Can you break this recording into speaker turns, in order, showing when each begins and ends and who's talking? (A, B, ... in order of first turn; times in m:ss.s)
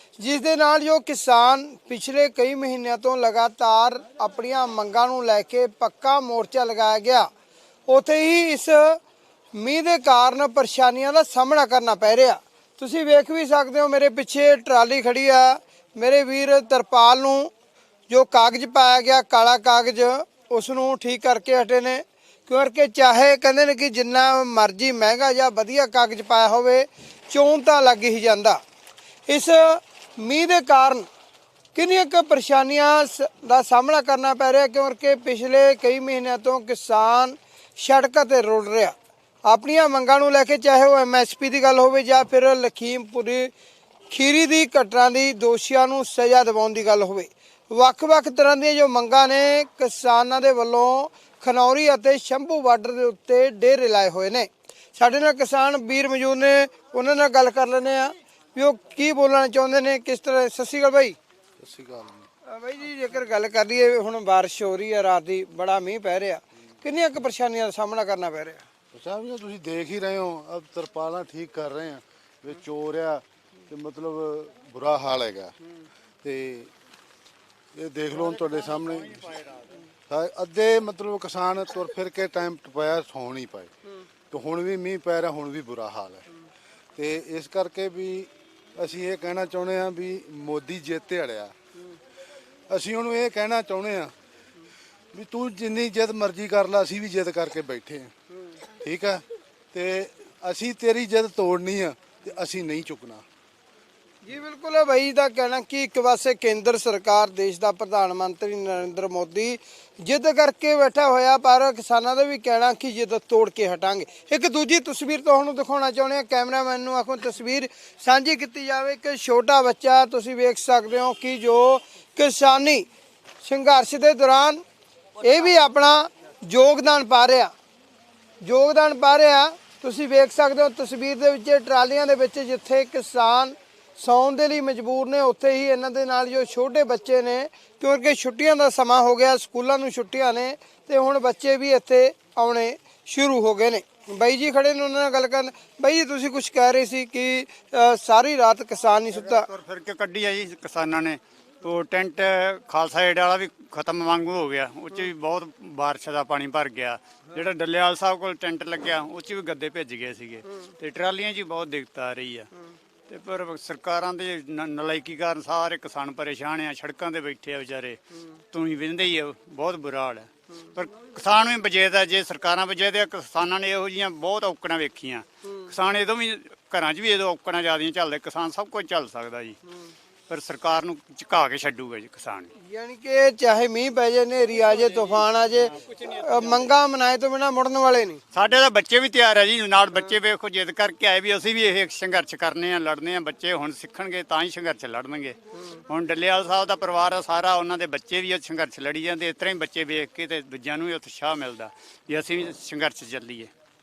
0:00.2-0:07.3 A
0:07.9-0:09.0 A
0:09.5-0:17.5 A
0:18.1-0:28.6 A
0:29.3-0:31.1 A
0:31.7-0:38.9 A
0:39.4-0:43.5 A
0:44.1-1:01.2 A
1:01.6-1:02.3 B
1:02.4-1:08.6 A
1:08.9-1:15.5 B
1:16.2-1:16.7 B
1:17.7-1:19.5 B
1:20.1-1:23.7 B
1:24.3-1:26.3 B
1:26.9-1:31.5 B
1:32.7-1:34.1 B
1:35.1-1:38.1 B
1:38.7-1:43.2 B
1:44.2-2:02.9 A
2:03.4-2:04.6 A
2:05.2-2:07.5 A
2:08.4-2:29.5 A
2:29.1-2:42.5 C
2:43.1-2:59.6 C
3:00.3-3:02.5 C
3:02.6-3:08.2 A
3:05.9-3:06.7 C
3:08.3-3:23.5 C